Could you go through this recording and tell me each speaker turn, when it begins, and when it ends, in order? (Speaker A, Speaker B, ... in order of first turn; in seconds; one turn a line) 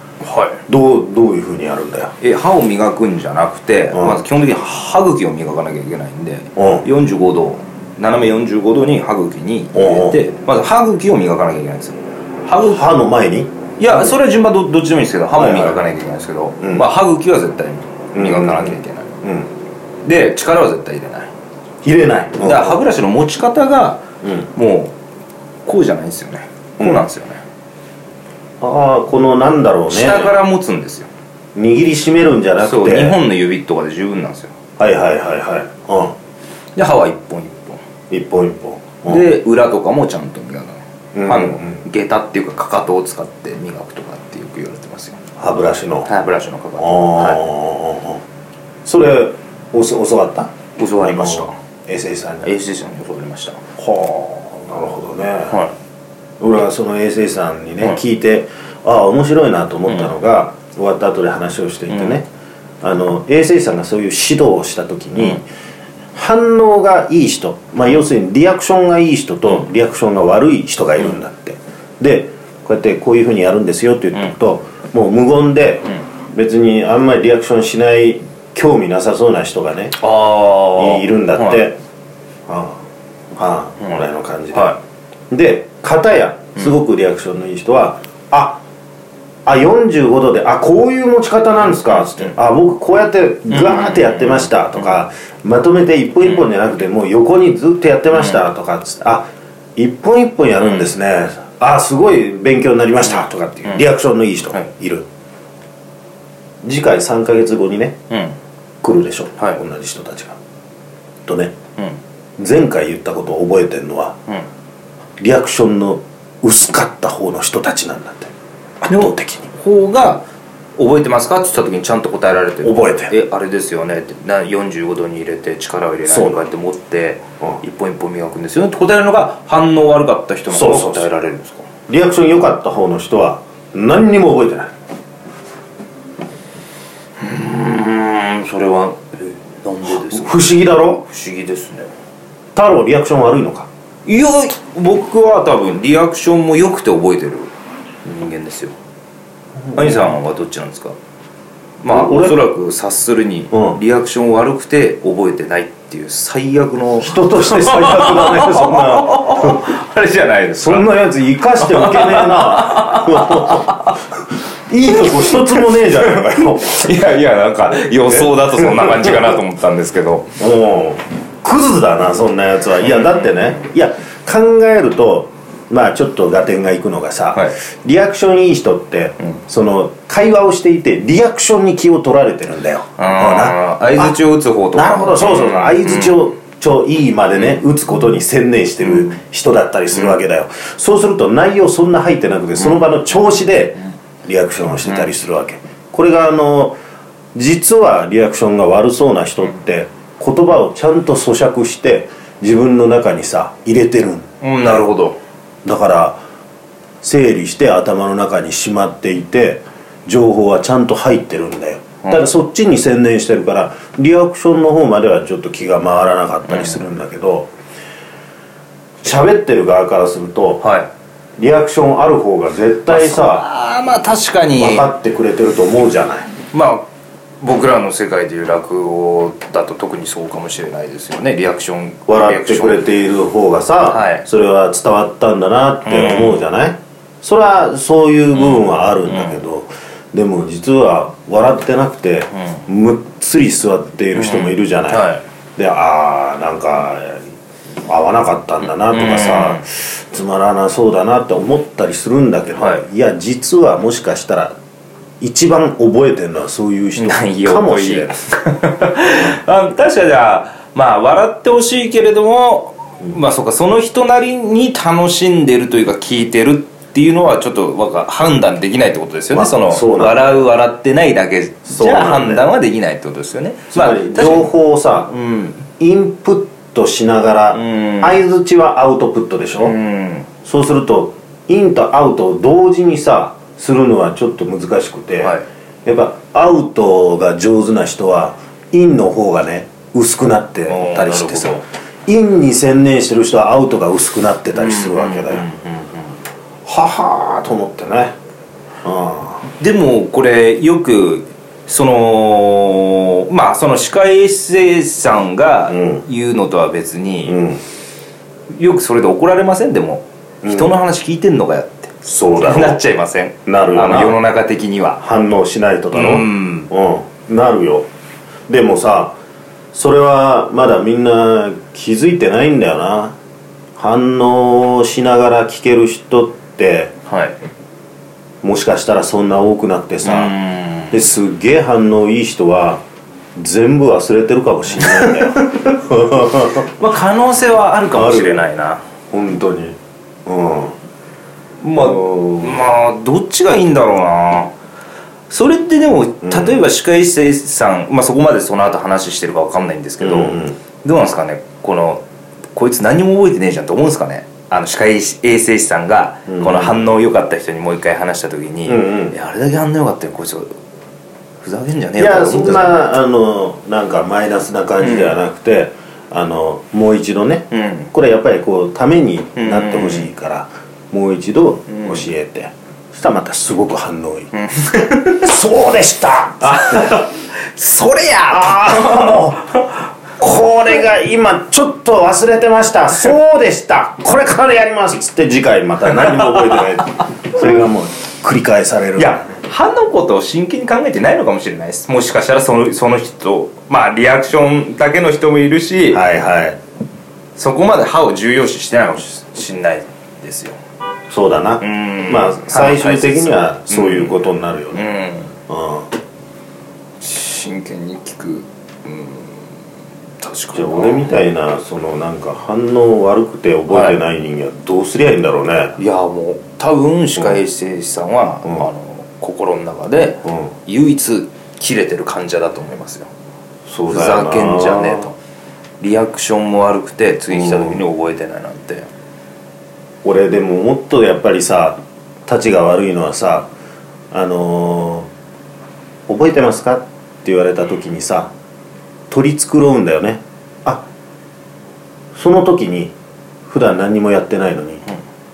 Speaker A: 0.2-0.6
Speaker B: 0.7-2.1
Speaker A: 2.2-12.8
Speaker B: 3.9-4.2
Speaker B: 6.5-6.8
Speaker B: 9.7-10.2
Speaker B: 12.6-14.1
Speaker A: 13.8-19.2
Speaker B: 15.3-15.8
Speaker B: 16.6-16.9
Speaker B: 18.1-19.5
Speaker A: 20.0-21.3
Speaker B: 21.8-22.8
Speaker A: 22.4-24.9
Speaker B: 24.2-24.5
Speaker A: 25.6-27.4
Speaker B: 26.8-27.0
Speaker B: 28.6-30.4
Speaker A: 29.9-31.1
Speaker B: 31.5-33.2
Speaker A: 32.6-34.5
Speaker B: 34.8-36.1
Speaker A: 36.8-37.8
Speaker B: 38.1-39.2
Speaker A: 39.0-45.2
Speaker B: 41.1-41.8
Speaker B: 45.4-46.1
Speaker A: 46.0-47.4
Speaker B: 46.8-48.2
Speaker B: 48.8-52.5
Speaker A: 50.8-51.5
Speaker A: 52.4-53.7
Speaker B: 53.8-55.6
Speaker B: 56.4-62.2
Speaker A: 59.9-60.1
Speaker A: 61.9-62.2
Speaker B: 62.8-65.4
Speaker B: 66.1-80.0
Speaker A: 80.0-81.6
Speaker B: 80.7-81.8
Speaker B: 82.5-84.8
Speaker A: 84.5-84.8
Speaker B: 85.3-88.6
Speaker B: 89.4-105.0
Speaker A: 92.0-92.3
Speaker A: 93.5-94.8
Speaker A: 100.6-100.9
Speaker B: 106.6-108.0
Speaker A: 108.1-108.3
Speaker B: 108.8-110.4
Speaker B: 111.2-111.5
Speaker B: 112.4-114.2
Speaker B: 115.2-119.5
Speaker A: 118.9-120.2
Speaker A: 120.8-131.7
Speaker B: 122.6-123.1
Speaker B: 126.0-126.4
Speaker B: 130.5-131.1
Speaker B: 131.9-134.7
Speaker A: 137.2-140.5
Speaker B: 139.8-141.0
Speaker A: 141.0-141.9
Speaker B: 142.5-143.7
Speaker A: 144.1-147.5
Speaker A: 148.0-148.7
Speaker B: 149.6-150.1
Speaker A: 149.7-150.9
Speaker A: 151.8-161.0
Speaker B: 151.9-152.4
Speaker B: 153.5-153.8
Speaker B: 157.0-159.7
Speaker B: 160.5-163.9
Speaker A: 161.6-164.0
Speaker B: 164.7-166.9
Speaker A: 164.9-170.4
Speaker B: 168.1-169.4
Speaker B: 170.4-184.2
Speaker A: 172.8-173.5
Speaker A: 177.3-177.6
Speaker A: 183.0-186.2
Speaker B: 184.7-196.8
Speaker A: 188.8-189.2
Speaker A: 192.6-192.8
Speaker B: 197.3-204.9
Speaker A: 204.4-205.2
Speaker B: 205.6-206.2
Speaker B: 207.0-217.5
Speaker A: 212.0-212.3
Speaker A: 216.5-216.8
Speaker B: 219.0-220.6
Speaker A: 220.6-220.9
Speaker B: 221.4-223.4
Speaker A: 222.9-224.9
Speaker B: 224.6-226.3
Speaker A: 226.5-226.9
Speaker A: 227.4-232.8
Speaker B: 232.1-247.3
Speaker A: 233.8-234.2
Speaker A: 235.8-236.4
Speaker A: 238.3-239.4
Speaker A: 244.1-245.2
Speaker B: 247.8-254.6
Speaker A: 248.8-249.6
Speaker A: 252.6-252.8
Speaker B: 255.2-258.2
Speaker A: 256.9-274.5
Speaker B: 269.3-270.3
Speaker B: 271.7-272.5
Speaker B: 273.7-275.1
Speaker A: 275.1-275.6
Speaker B: 275.7-279.7
Speaker A: 277.5-278.2
Speaker A: 279.6-280.3
Speaker B: 280.4-295.5
Speaker A: 290.7-291.6
Speaker A: 294.6-296.1
Speaker B: 296.6-298.1
Speaker B: 298.8-299.4
Speaker A: 299.5-307.4
Speaker B: 305.7-306.0
Speaker B: 307.2-307.6
Speaker A: 308.5-315.0
Speaker B: 310.4-310.7
Speaker B: 312.0-312.8
Speaker B: 313.4-314.2
Speaker B: 315.0-317.9
Speaker A: 315.9-316.7
Speaker B: 318.5-319.1
Speaker B: 319.7-323.1
Speaker B: 323.8-326.9
Speaker A: 327.1-327.4
Speaker B: 328.4-330.3
Speaker A: 330.0-331.0
Speaker B: 330.9-332.8
Speaker B: 333.4-336.7
Speaker A: 334.7-335.5
Speaker A: 336.6-338.8
Speaker B: 337.9-338.5
Speaker B: 339.1-340.8
Speaker A: 341.6-344.5
Speaker B: 341.8-342.6
Speaker A: 345.3-352.0
Speaker B: 346.2-346.6
Speaker B: 350.0-350.6
Speaker A: 352.5-360.5
Speaker B: 356.3-356.9
Speaker B: 358.7-359.1
Speaker A: 361.4-362.8
Speaker B: 362.0-377.0
Speaker A: 364.8-365.1
Speaker A: 367.5-367.9
Speaker A: 369.4-370.1
Speaker A: 371.7-372.1
Speaker A: 374.3-375.3
Speaker A: 376.4-379.6
Speaker B: 378.3-379.6
Speaker B: 380.2-389.4
Speaker A: 386.0-386.6
Speaker A: 389.0-396.0
Speaker B: 395.9-396.6
Speaker A: 397.4-400.6
Speaker B: 401.1-404.8
Speaker A: 401.6-405.3
Speaker B: 405.5-405.9
Speaker A: 407.0-409.5
Speaker A: 410.2-411.1
Speaker B: 410.5-415.8
Speaker A: 413.7-414.0
Speaker A: 415.8-423.1
Speaker B: 423.7-425.1
Speaker A: 423.9-425.1
Speaker A: 425.8-428.9
Speaker B: 427.3-427.8
Speaker B: 430.0-433.5
Speaker B: 434.1-435.1
Speaker B: 436.1-438.3
Speaker B: 439.1-440.9
Speaker B: 442.1-442.9
Speaker B: 443.4-444.8